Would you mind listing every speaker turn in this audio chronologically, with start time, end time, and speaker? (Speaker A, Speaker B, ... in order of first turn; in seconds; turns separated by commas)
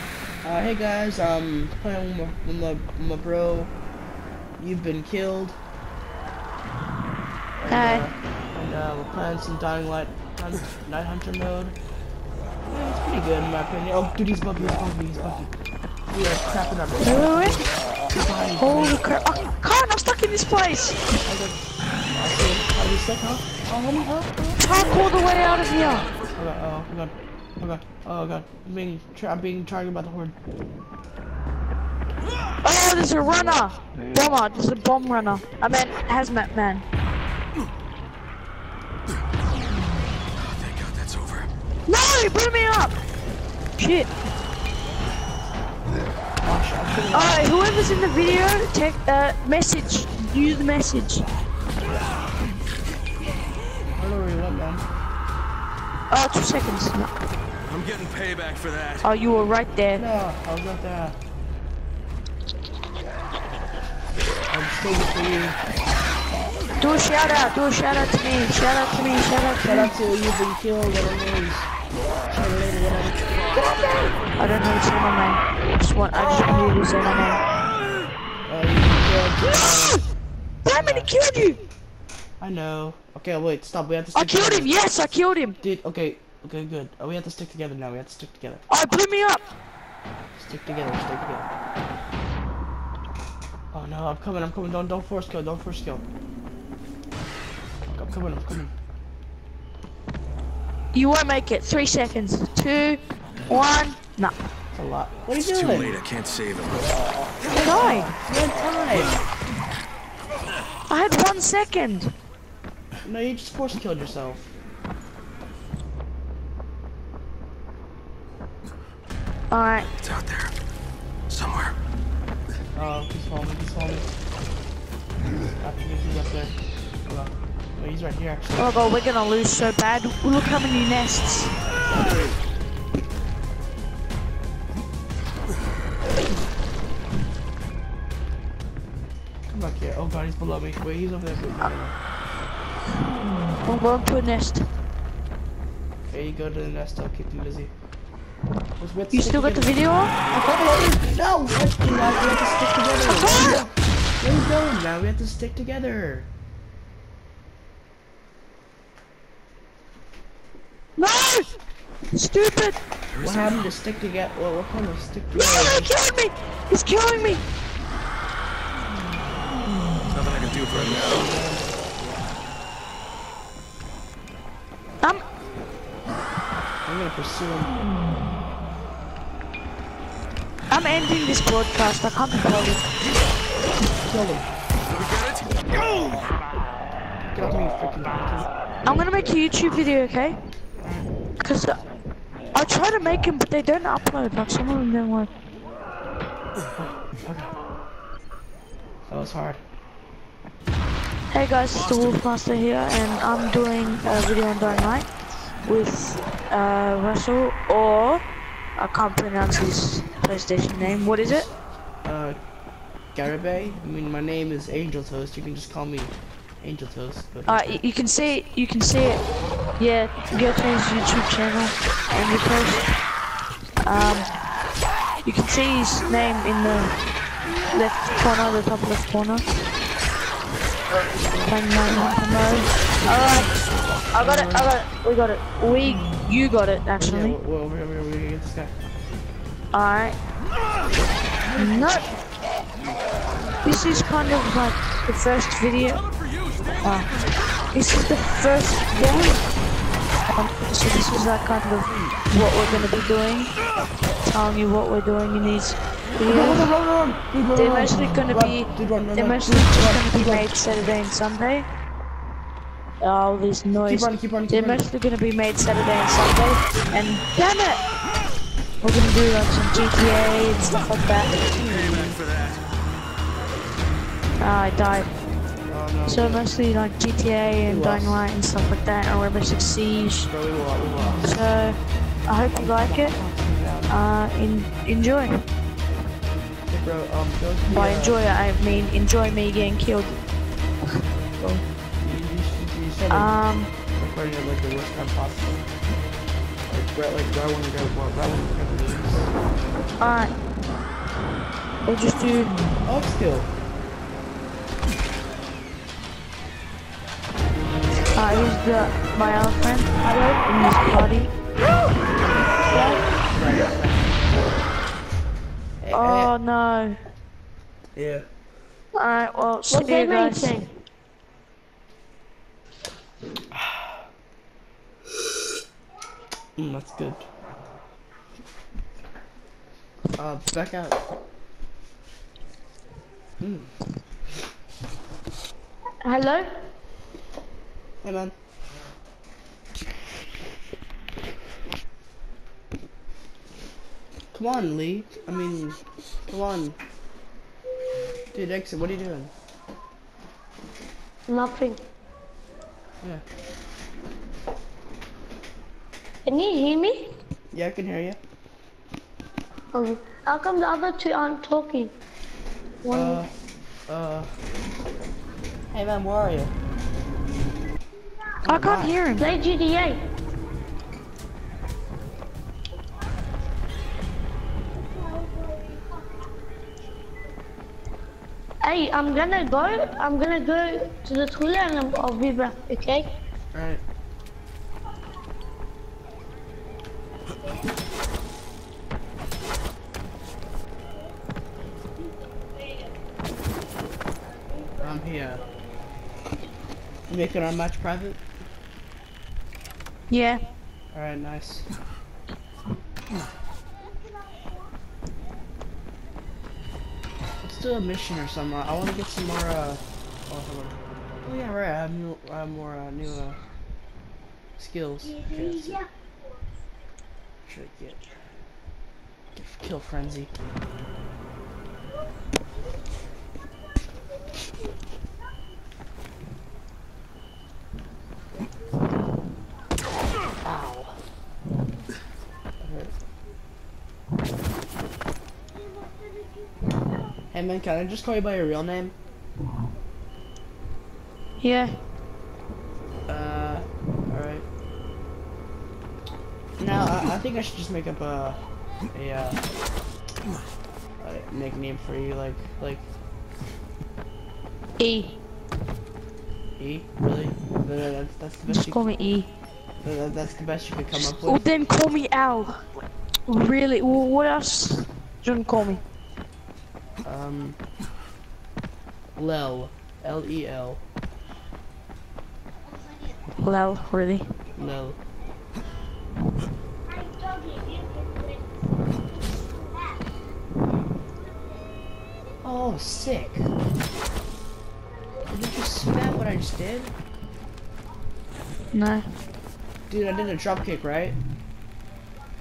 Speaker A: 0.4-3.7, Speaker A: 4.6-5.5, Speaker A: 7.6-11.8, Speaker B: 7.7-8.1, Speaker A: 12.7-15.5, Speaker A: 16.1-19.1, Speaker B: 17.0-17.7, Speaker B: 18.6-21.0, Speaker A: 21.2-24.9, Speaker B: 24.6-26.1, Speaker A: 26.3-30.3, Speaker B: 32.6-36.8, Speaker C: 40.4-41.5, Speaker B: 41.9-43.0, Speaker B: 43.8-44.1, Speaker A: 46.4-47.5, Speaker B: 47.1-51.3, Speaker A: 54.0-54.8, Speaker B: 56.1-57.1, Speaker C: 57.7-59.0, Speaker B: 59.0-60.0, Speaker A: 60.0-61.2, Speaker A: 64.4-65.6, Speaker B: 66.8-69.9, Speaker A: 69.6-71.7, Speaker A: 72.3-73.2, Speaker B: 73.8-77.4, Speaker A: 78.5-80.1, Speaker B: 80.6-81.6, Speaker A: 80.7-81.1, Speaker A: 82.4-85.0, Speaker B: 84.1-85.6, Speaker A: 85.6-88.6, Speaker B: 88.7-89.4, Speaker A: 90.3-91.5, Speaker A: 93.7-96.0, Speaker A: 97.9-98.7, Speaker B: 100.9-104.3, Speaker A: 104.7-106.0, Speaker C: 105.4-106.9, Speaker A: 107.5-109.2, Speaker B: 107.5-108.1, Speaker B: 110.9-112.1, Speaker A: 113.0-114.5, Speaker B: 119.5-119.9, Speaker C: 120.0-120.5, Speaker C: 121.3-121.7, Speaker A: 122.7-124.1, Speaker A: 125.6-128.8, Speaker B: 128.6-131.6, Speaker A: 139.5-141.9, Speaker B: 143.6-144.7, Speaker A: 146.1-147.7, Speaker A: 148.8-149.8, Speaker B: 149.1-150.2, Speaker A: 150.3-156.3, Speaker B: 153.1-153.6, Speaker B: 161.0-161.6, Speaker B: 162.1-162.8, Speaker A: 163.2-165.9, Speaker C: 163.2-163.5, Speaker B: 165.3-167.4, Speaker C: 170.1-171.2, Speaker A: 170.7-172.2, Speaker A: 176.8-177.9, Speaker B: 180.7-182.9, Speaker A: 184.0-184.5, Speaker C: 184.9-186.2, Speaker A: 187.3-188.5, Speaker B: 188.8-190.4, Speaker A: 190.8-191.1, Speaker B: 191.4-191.8, Speaker B: 192.5-195.3, Speaker A: 196.8-197.6, Speaker A: 199.1-199.6, Speaker B: 201.3-205.1, Speaker A: 204.6-204.9, Speaker B: 205.6-208.2, Speaker B: 208.8-211.5, Speaker A: 212.0-212.4, Speaker A: 213.1-217.8, Speaker B: 217.5-219.2, Speaker B: 219.8-222.9, Speaker B: 223.8-224.3, Speaker B: 225.2-227.0, Speaker B: 227.7-229.4, Speaker A: 230.9-232.2, Speaker B: 231.4-233.5, Speaker A: 233.0-234.7, Speaker B: 234.1-237.4, Speaker A: 237.0-238.7, Speaker B: 239.7-240.2, Speaker A: 241.4-242.2, Speaker B: 241.6-242.0, Speaker A: 243.3-244.4, Speaker B: 243.6-246.1, Speaker B: 246.8-247.2, Speaker B: 247.7-249.3, Speaker A: 249.0-249.3, Speaker B: 250.3-253.5, Speaker A: 251.9-252.8, Speaker B: 254.2-256.7, Speaker A: 256.2-260.8, Speaker B: 257.5-261.6, Speaker B: 263.0-267.8, Speaker A: 263.8-264.9, Speaker B: 268.8-271.3, Speaker A: 271.3-272.2, Speaker C: 271.6-272.6, Speaker B: 274.4-275.1, Speaker A: 275.7-276.5, Speaker B: 276.1-280.3, Speaker A: 277.6-278.3, Speaker A: 280.3-281.4, Speaker B: 281.2-283.1, Speaker A: 282.5-284.0, Speaker B: 283.9-285.4, Speaker A: 286.7-288.2, Speaker B: 287.7-290.2, Speaker B: 291.3-291.6, Speaker A: 292.0-293.4, Speaker B: 293.1-293.7, Speaker A: 293.9-295.7, Speaker A: 296.7-299.3, Speaker B: 300.0-300.3, Speaker B: 301.9-302.6, Speaker A: 302.8-303.5, Speaker B: 308.1-311.3, Speaker A: 312.2-314.5, Speaker D: 312.7-313.0, Speaker A: 315.8-316.3, Speaker B: 315.9-317.0, Speaker A: 317.9-318.2, Speaker B: 318.9-320.5, Speaker D: 319.7-320.7, Speaker A: 323.5-324.0, Speaker A: 326.6-327.2, Speaker A: 330.2-331.0, Speaker A: 333.4-333.7, Speaker D: 336.0-336.6, Speaker A: 338.0-338.3, Speaker A: 344.3-346.8, Speaker A: 348.3-349.3, Speaker D: 351.3-351.8, Speaker D: 356.2-357.1, Speaker A: 357.5-358.2, Speaker D: 359.7-361.9, Speaker D: 362.8-363.3, Speaker A: 362.9-363.3, Speaker A: 363.9-364.4, Speaker A: 365.7-366.5, Speaker B: 368.4-369.4, Speaker A: 368.4-369.0, Speaker D: 369.2-370.1, Speaker D: 375.2-375.7, Speaker D: 378.6-383.1, Speaker A: 383.5-383.8, Speaker A: 394.8-395.4, Speaker A: 397.1-398.2, Speaker B: 400.1-400.4, Speaker A: 400.9-401.6, Speaker A: 407.4-413.4, Speaker A: 414.6-415.8, Speaker A: 417.4-418.0, Speaker A: 419.3-420.3, Speaker A: 430.4-431.0, Speaker A: 432.6-432.9, Speaker A: 437.3-438.9, Speaker B: 441.4-441.8, Speaker A: 443.1-444.4, Speaker A: 446.6-448.4, Speaker A: 448.9-449.4, Speaker A: 451.0-452.9, Speaker B: 454.8-455.2, Speaker A: 456.6-458.8, Speaker B: 458.5-459.3, Speaker A: 459.8-461.5, Speaker B: 461.1-462.6, Speaker B: 463.2-465.8, Speaker A: 467.0-467.6, Speaker A: 469.1-470.8, Speaker B: 473.4-474.3, Speaker A: 474.6-475.0, Speaker A: 482.4-483.5, Speaker A: 485.3-486.9, Speaker B: 488.7-489.1, Speaker A: 489.9-491.2